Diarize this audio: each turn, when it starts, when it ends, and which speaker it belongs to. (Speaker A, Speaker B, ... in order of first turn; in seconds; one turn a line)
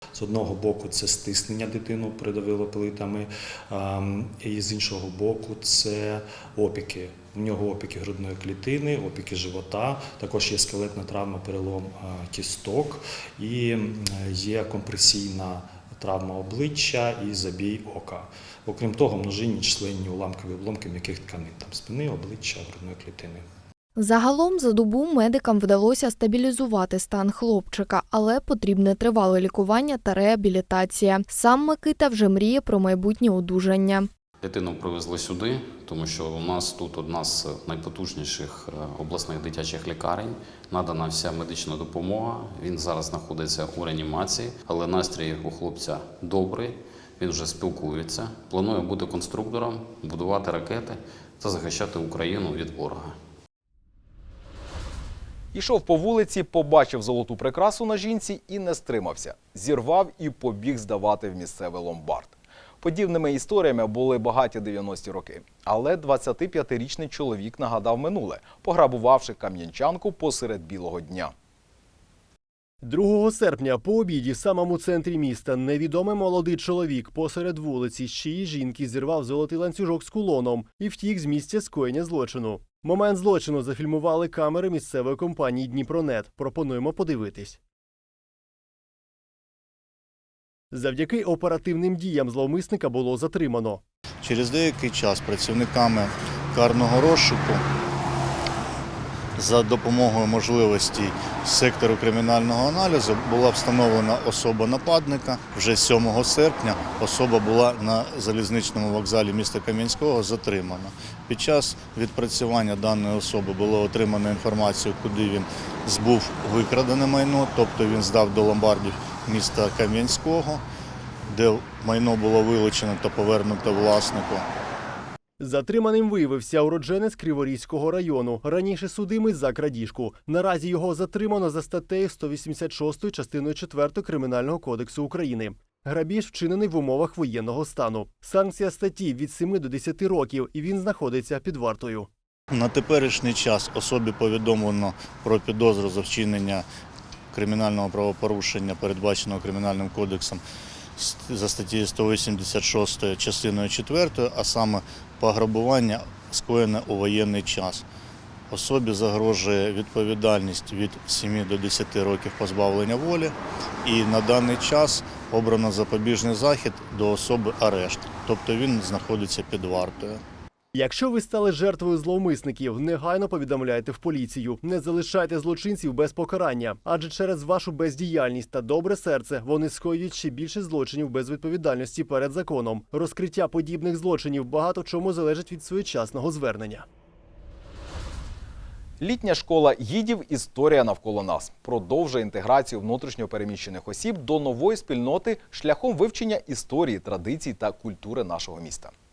Speaker A: 0.1-23.4
Speaker B: 24.0-34.1
Speaker C: 34.4-53.1
Speaker D: 55.5-71.3
Speaker E: 72.8-87.6
Speaker E: 90.7-93.8
Speaker F: 94.2-97.6
Speaker F: 99.4-120.6
Speaker F: 121.3-124.5
Speaker E: 125.4-142.1
Speaker F: 142.5-146.7
Speaker F: 147.3-150.4
Speaker F: 151.0-157.8
Speaker F: 158.5-170.2
Speaker E: 170.7-186.8
Speaker D: 189.0-198.9